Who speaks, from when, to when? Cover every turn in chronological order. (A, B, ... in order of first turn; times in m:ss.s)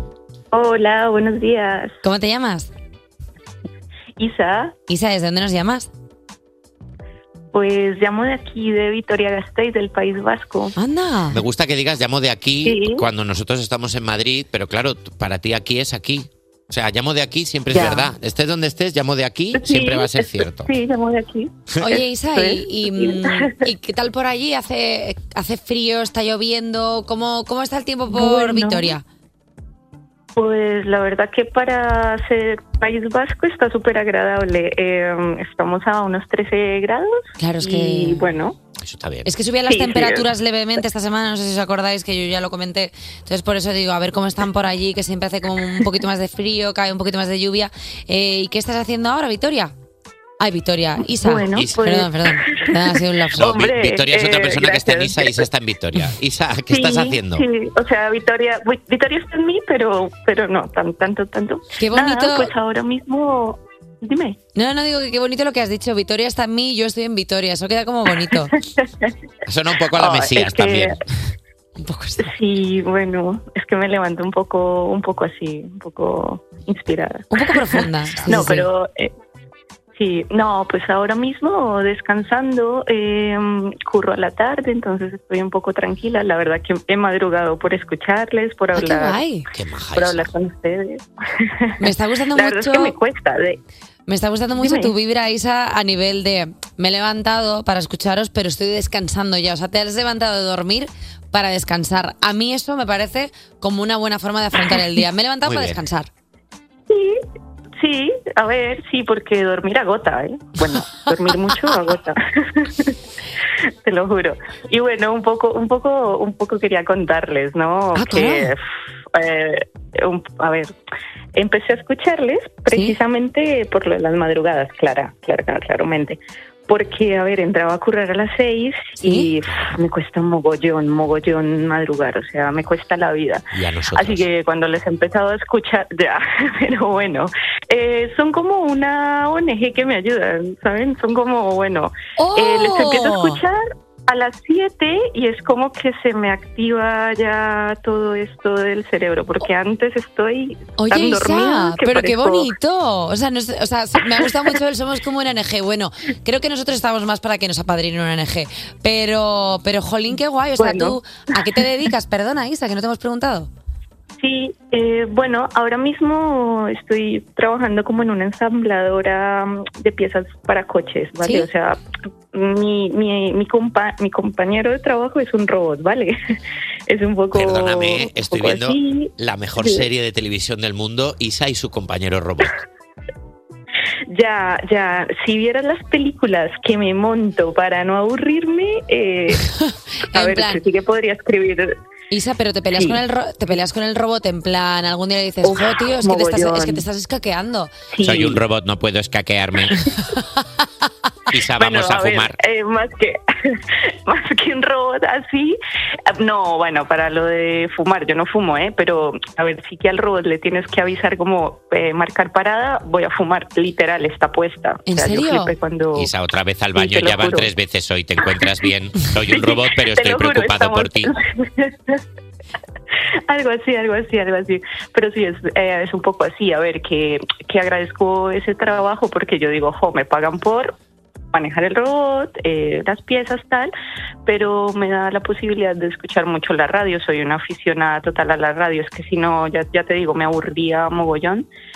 0:00.5-0:01.9 A
0:02.0-0:02.7 B
0:04.2-0:04.7 A
0:04.9-0:05.9 B
0:07.5-0:10.7 A
0:10.8-0:11.4 B
0:11.3-0:20.7 C
0:12.6-0:13.0 A
0:17.7-0:18.1 A
0:19.5-0:23.7 A
0:21.8-0:29.0 B
0:28.1-0:29.0 A
0:30.4-0:38.6 A
0:37.4-0:38.3 B
0:38.8-0:39.3 C
0:39.2-0:49.7 B
0:39.7-0:40.3 A
0:50.4-0:53.6 B
0:51.2-0:55.5 A
0:51.5-0:51.8 C
0:53.4-0:57.4 C
0:56.7-1:04.4 A
1:01.8-1:02.5 B
1:04.6-1:08.5 B
1:08.3-1:09.1 A
1:09.4-1:10.9 C
1:09.9-1:10.9 A
1:11.8-1:12.3 B
1:12.2-1:19.1 A
1:17.3-1:18.7 B
1:18.1-1:18.6 C
1:20.0-1:29.2 A
1:28.7-1:29.4 B
1:29.5-1:30.3 C
1:29.9-1:33.6 A
1:31.8-1:33.0 B
1:34.1-1:46.1 B
1:34.6-1:34.9 A
1:45.4-1:45.8 C
1:46.9-1:47.2 A
1:47.8-1:52.9 A
1:50.7-1:51.5 B
1:53.8-1:58.6 A
1:57.9-1:58.5 B
1:59.1-2:00.7 A
2:01.3-2:32.5 A
2:02.7-2:03.0 B
2:09.0-2:09.3 B
2:13.5-2:14.3 C
2:22.2-2:23.4 B
2:30.8-2:43.5 B
2:34.1-2:34.6 A
2:40.6-2:41.0 A
2:44.2-2:51.8 A
2:51.2-2:51.5 B
2:52.3-2:56.2 A
2:56.9-2:59.9 A
2:57.3-3:02.5 C
3:04.1-3:09.5 A
3:09.4-3:10.6 B
3:10.1-3:11.8 A
3:12.1-3:17.7 B
3:12.7-3:13.0 A
3:15.4-3:16.8 A
3:17.9-3:18.4 A
3:18.0-3:19.9 C
3:21.3-3:22.4 C
3:21.6-3:25.6 A
3:26.1-3:36.1 A
3:34.9-3:35.6 B
3:35.9-3:41.1 C
3:36.7-3:37.5 A
3:39.3-3:42.0 A
3:43.3-3:50.8 A
3:51.3-3:53.7 A
3:54.2-4:01.4 A